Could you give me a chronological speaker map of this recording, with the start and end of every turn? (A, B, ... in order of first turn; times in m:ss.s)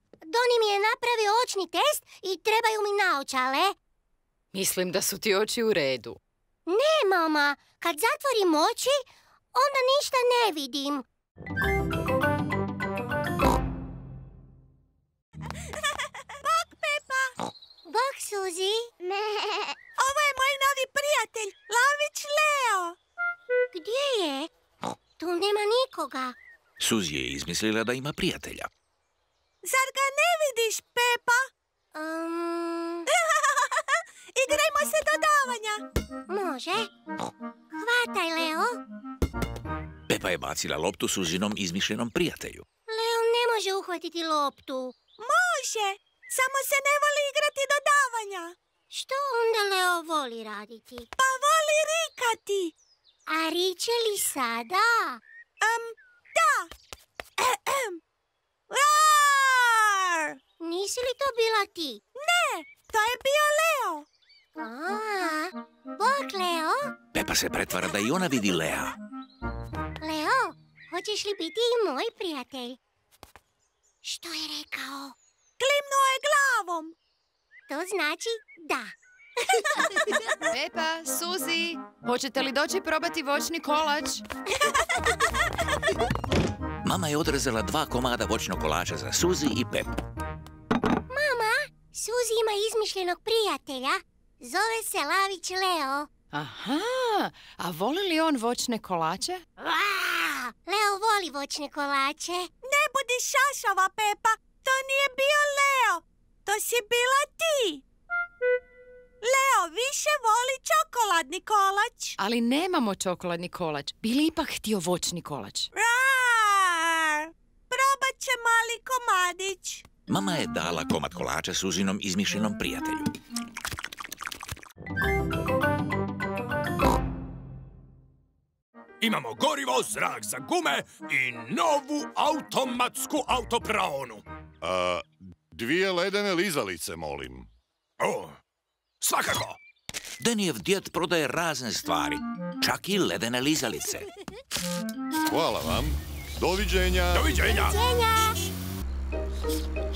0:00.3-0:03.8 A
0:04.5-0:06.2 B
0:06.7-0:11.0 A
0:16.4-0:17.3 C
0:17.9-0:19.8 A
0:20.0-0:23.0 C
0:23.7-0:24.5 A
0:25.2-0:26.4 A
0:26.8-0:28.7 D
0:29.6-0:31.5 C
0:31.9-0:33.1 A
0:33.1-0:35.8 C
0:36.3-0:36.9 A
0:37.8-0:38.8 A
0:40.1-0:42.6 D
0:42.9-0:45.0 A
0:45.2-0:48.6 C
0:48.9-0:51.1 A
0:51.2-0:52.7 C
0:53.3-0:55.2 A
0:55.6-0:56.7 C
0:57.4-0:58.0 C
0:58.7-1:00.4 C
1:00.6-1:02.0 A
1:02.2-1:04.1 C
1:04.6-1:06.9 A
1:07.1-1:09.0 D
1:10.0-1:12.8 A
1:14.0-1:15.2 A
1:15.6-1:16.9 C
1:17.7-1:18.9 A
1:20.5-1:24.2 B
1:26.8-1:29.9 D
1:31.1-1:36.1 A
1:36.3-1:39.4 B
1:39.6-1:42.5 A
1:42.6-1:47.8 C
1:49.2-1:52.2 C
1:52.2-1:55.7 B
1:55.7-1:59.8 C
2:00.1-2:03.1 D
2:09.0-2:14.2 E
2:14.6-2:17.5 F
2:18.0-2:18.4 E
2:19.0-2:19.6 E
2:20.2-2:24.1 D
2:25.3-2:27.3 F
2:27.1-2:27.8 E
2:27.4-2:28.4 A